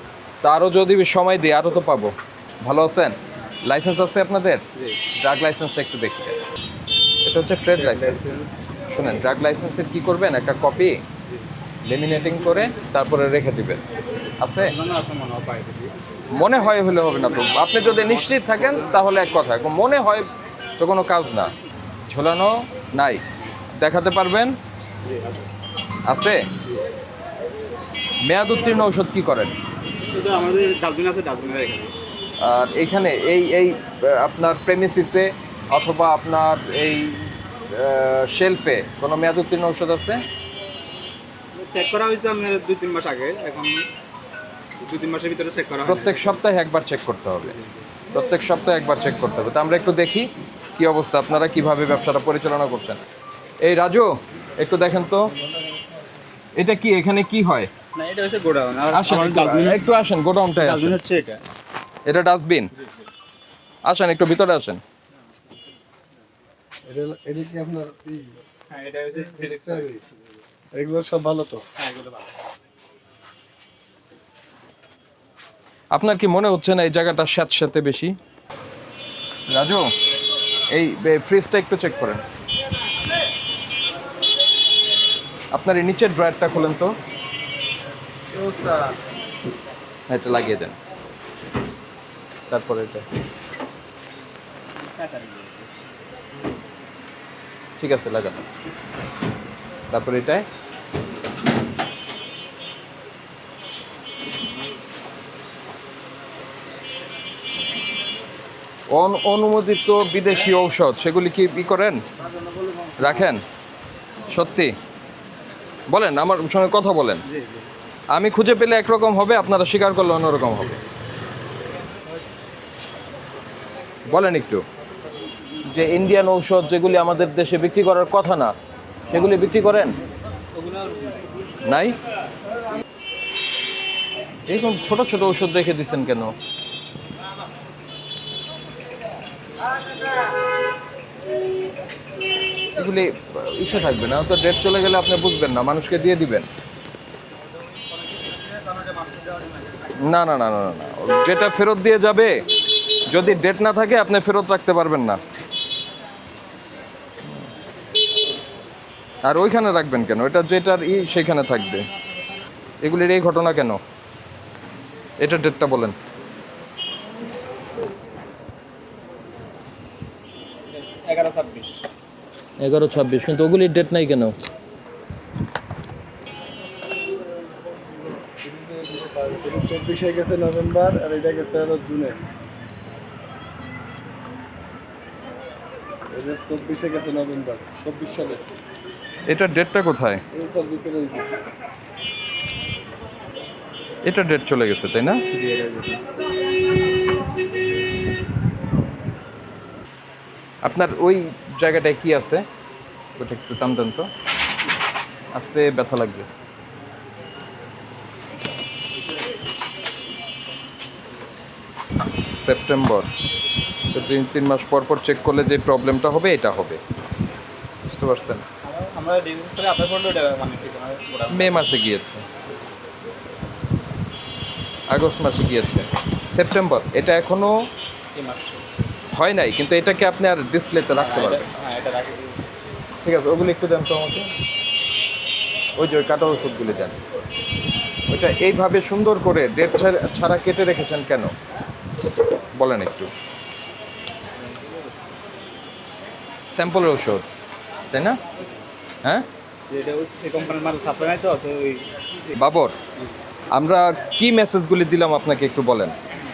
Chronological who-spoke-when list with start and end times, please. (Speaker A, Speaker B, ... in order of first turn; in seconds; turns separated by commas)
Speaker A: 0.4-2.1, Speaker A: 2.6-4.6, Speaker A: 5.2-6.4, Speaker A: 7.2-8.4, Speaker B: 7.8-8.5, Speaker A: 8.9-11.0, Speaker A: 11.8-13.8, Speaker A: 14.4-14.7, Speaker B: 14.6-15.9, Speaker A: 16.3-20.3, Speaker B: 17.5-19.0, Speaker A: 20.8-21.5, Speaker A: 22.1-23.2, Speaker A: 23.8-24.6, Speaker B: 25.0-25.5, Speaker A: 26.1-26.4, Speaker A: 28.2-29.5, Speaker B: 30.1-31.9, Speaker A: 32.4-40.2, Speaker B: 41.5-43.9, Speaker B: 44.8-46.4, Speaker A: 45.8-47.6, Speaker A: 48.1-53.0, Speaker A: 53.6-55.3, Speaker A: 56.6-57.7, Speaker B: 57.9-60.0, Speaker A: 58.9-61.0, Speaker B: 60.5-61.4, Speaker A: 62.0-62.7, Speaker A: 63.8-64.8, Speaker C: 66.9-68.3, Speaker B: 68.7-70.0, Speaker C: 69.5-70.0, Speaker C: 70.7-71.6, Speaker B: 71.8-72.3, Speaker A: 75.9-78.1, Speaker A: 79.5-79.9, Speaker A: 80.7-82.2, Speaker A: 85.5-86.9, Speaker B: 88.3-89.0, Speaker A: 90.1-90.8, Speaker A: 92.5-93.0, Speaker B: 94.8-95.7, Speaker A: 97.8-98.5, Speaker A: 99.9-100.5, Speaker A: 108.9-112.0, Speaker B: 112.5-113.1, Speaker A: 113.0-113.4, Speaker A: 114.3-114.7, Speaker A: 115.9-117.2, Speaker B: 117.3-117.7, Speaker A: 118.1-120.7, Speaker A: 124.1-124.6, Speaker A: 125.7-128.5, Speaker A: 129.1-130.0, Speaker B: 130.5-131.3, Speaker A: 131.6-132.0, Speaker A: 134.5-136.3, Speaker A: 142.7-146.5, Speaker B: 147.9-149.9, Speaker A: 150.0-152.4, Speaker A: 153.1-155.2, Speaker A: 159.2-161.9, Speaker A: 162.8-163.8, Speaker A: 165.2-165.9, Speaker B: 170.8-171.8, Speaker A: 172.6-174.3, Speaker C: 178.4-182.2, Speaker C: 186.1-188.4, Speaker A: 189.3-190.2, Speaker C: 190.3-191.3, Speaker A: 194.0-195.2, Speaker B: 195.3-196.0, Speaker A: 200.6-202.4, Speaker A: 203.2-204.1, Speaker A: 205.3-206.3, Speaker A: 212.2-213.1, Speaker A: 213.9-216.8, Speaker A: 217.8-218.4, Speaker B: 218.6-221.6, Speaker A: 221.3-222.2, Speaker A: 224.9-227.6, Speaker B: 228.1-228.6, Speaker A: 229.1-231.5, Speaker B: 230.9-232.4, Speaker A: 233.0-234.3, Speaker A: 235.8-237.0, Speaker A: 238.1-241.3, Speaker A: 242.5-243.1, Speaker A: 246.5-247.2, Speaker A: 247.9-248.2, Speaker B: 249.7-252.3, Speaker A: 252.3-252.8, Speaker A: 253.5-255.9